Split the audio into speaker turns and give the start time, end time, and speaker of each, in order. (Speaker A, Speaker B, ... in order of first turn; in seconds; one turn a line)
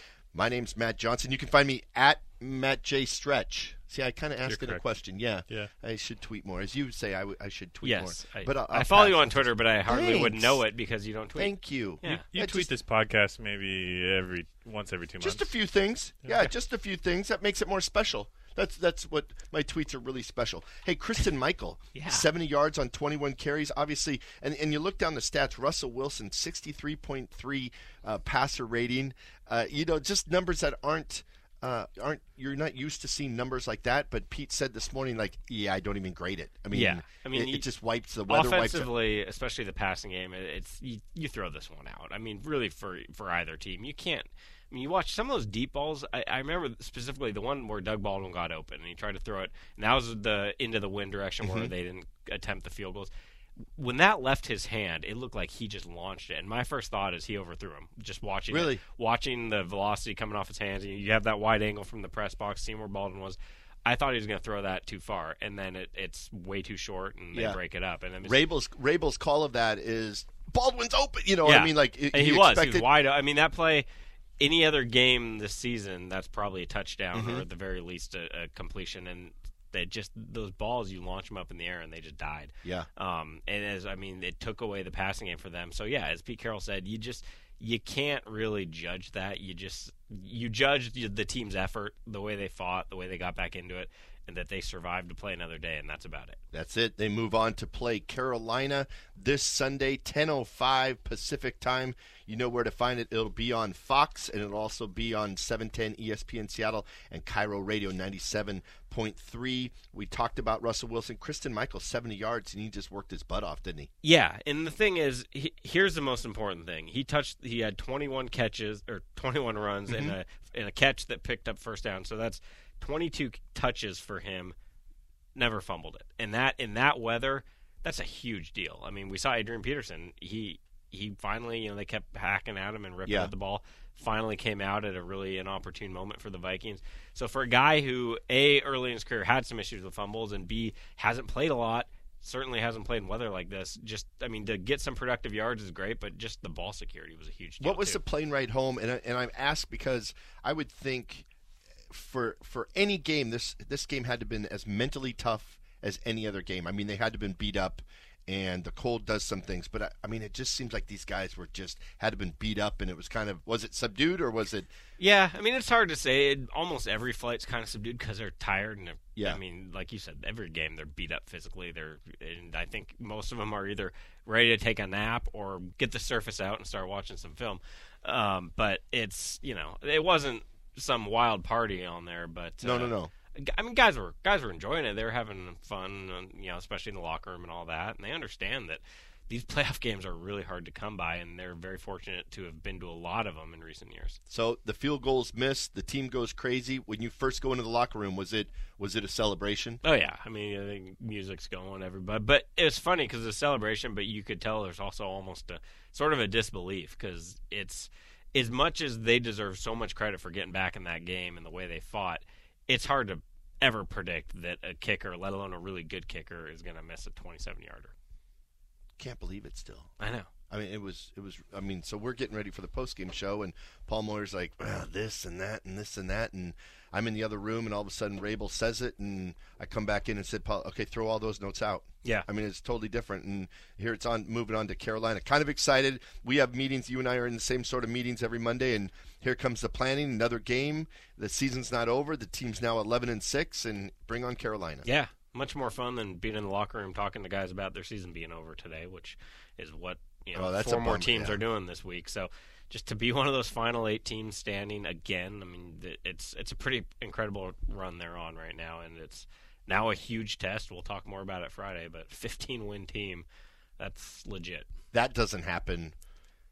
Speaker A: 0.3-10.6
Speaker B: 4.5-4.8
Speaker B: 5.4-5.7
Speaker C: 7.8-12.2
Speaker A: 11.4-12.7
Speaker B: 12.0-15.5
Speaker A: 15.2-38.9
Speaker B: 16.2-16.5
Speaker C: 21.9-22.2
Speaker C: 36.7-37.7
Speaker C: 38.3-53.1
Speaker A: 51.4-51.7
Speaker C: 53.8-68.4
Speaker A: 58.5-58.8
Speaker A: 68.2-72.9
Speaker C: 71.4-73.9
Speaker C: 74.4-96.4
Speaker A: 77.2-77.5
Speaker A: 96.5-113.9
Speaker C: 114.0-124.5
Speaker A: 119.9-120.2
Speaker C: 125.3-148.0
Speaker A: 133.1-133.3
Speaker A: 147.6-151.3
Speaker A: 151.9-164.7
Speaker C: 165.0-194.2
Speaker A: 182.6-183.1
Speaker A: 194.3-199.8
Speaker C: 199.8-217.9
Speaker A: 219.0-219.9
Speaker C: 220.0-220.3
Speaker A: 220.5-244.9
Speaker C: 244.8-263.3
Speaker A: 250.3-251.4
Speaker C: 263.8-264.7
Speaker A: 264.9-265.9